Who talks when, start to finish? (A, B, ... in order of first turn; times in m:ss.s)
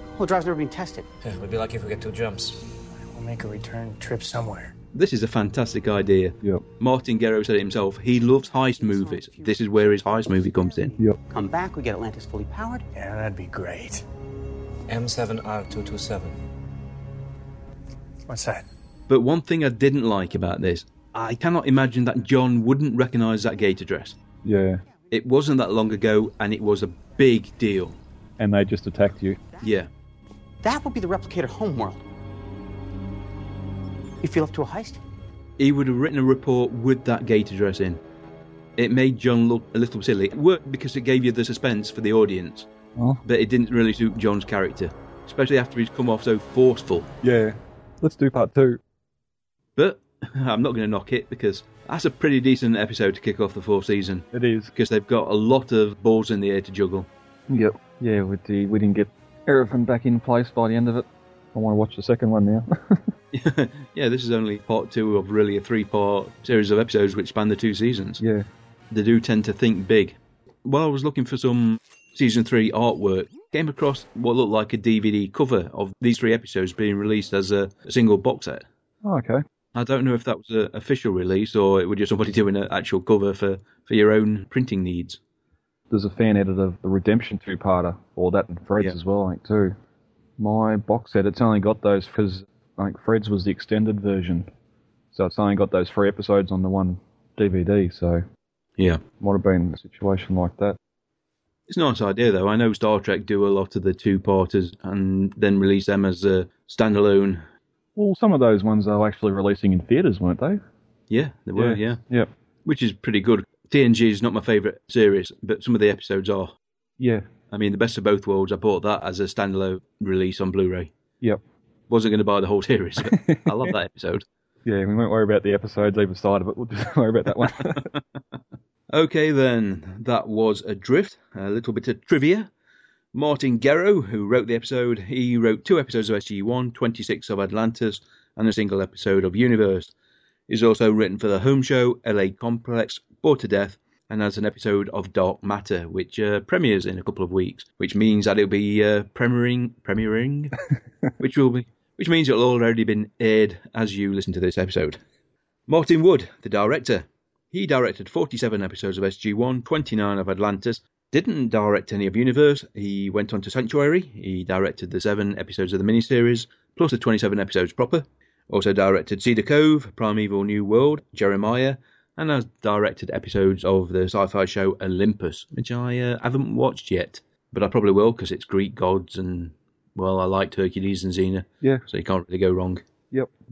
0:00.2-0:01.1 A
0:01.2-0:02.6 B
0:02.9-0:04.7 C
0:04.9-0:11.0 D
0:08.8-0:12.8 A
0:12.9-0:14.0 C
0:14.9-0:16.4 B
0:18.3-0:18.6 C
0:19.1-0:24.2 D
0:24.4-0:24.8 E
0:25.1-0:28.0 D
0:28.4-0:29.4 E
0:29.6-0:29.9 D
0:30.6-0:32.0 A
0:34.2-0:35.0 A
0:35.6-0:38.0 D
0:38.8-0:42.7 D
0:43.0-0:43.2 E
0:43.2-0:47.1 D
0:47.2-0:48.8 E
0:49.8-0:57.1 D
0:54.3-0:54.7 E
0:57.5-1:03.1 E
1:03.3-1:08.2 D
1:08.2-1:08.5 E
1:08.9-1:18.6 D
1:19.0-1:19.4 E
1:19.7-1:25.2 D
1:25.9-1:29.8 E
1:30.4-1:34.5 E
1:35.1-1:38.2 E
1:39.2-1:40.8 E
1:41.7-1:47.4 D
1:48.0-1:50.6 E
1:51.1-1:52.0 D
1:51.6-1:52.3 E
1:52.6-1:56.6 D
1:57.0-1:57.3 E
1:57.5-2:00.9 D
2:01.9-2:04.2 D
2:03.0-2:03.7 E
2:04.6-2:07.9 E
2:07.4-2:08.0 D
2:08.9-2:12.5 D
2:13.1-2:19.9 D
2:20.5-2:30.6 D
2:31.2-2:35.0 D
2:35.7-3:02.8 D